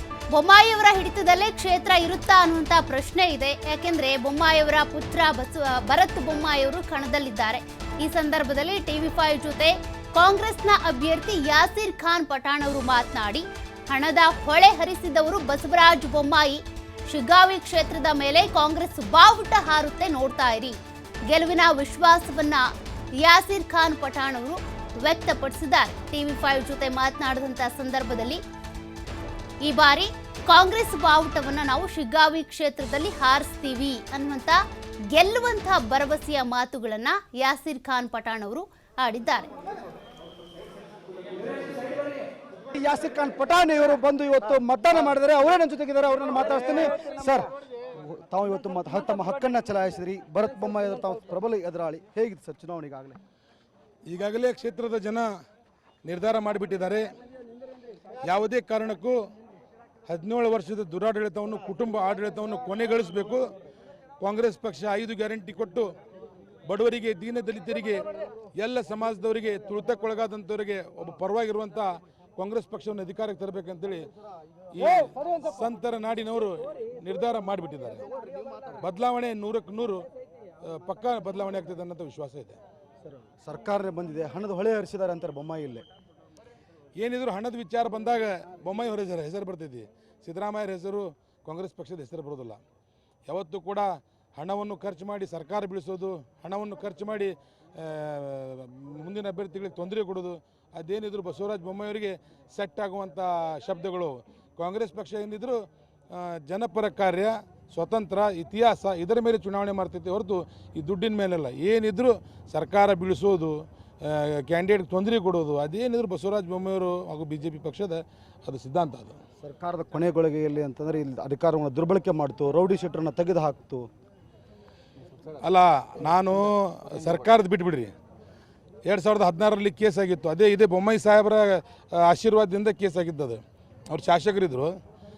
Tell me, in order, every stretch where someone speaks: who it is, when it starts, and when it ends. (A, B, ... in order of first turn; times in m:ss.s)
0:00.3-0:20.8 A
0:21.3-0:22.6 A
0:23.2-0:28.4 A
0:29.6-0:34.6 A
0:35.1-0:39.5 A
0:42.7-0:47.5 B
0:48.0-0:53.2 B
0:54.1-0:55.3 C
0:56.0-0:57.0 C
0:58.2-0:59.2 C
1:00.1-1:03.4 C
1:04.2-1:05.9 C
1:06.7-1:08.0 C
1:08.6-1:14.1 C
1:14.7-1:18.0 C
1:18.8-1:20.0 C
1:20.6-1:22.6 C
1:23.2-1:25.8 B
1:27.0-1:32.6 C
1:33.3-1:45.6 C
1:46.1-1:59.2 C
1:59.4-2:03.8 B
2:05.4-2:07.9 C
2:08.9-2:14.7 C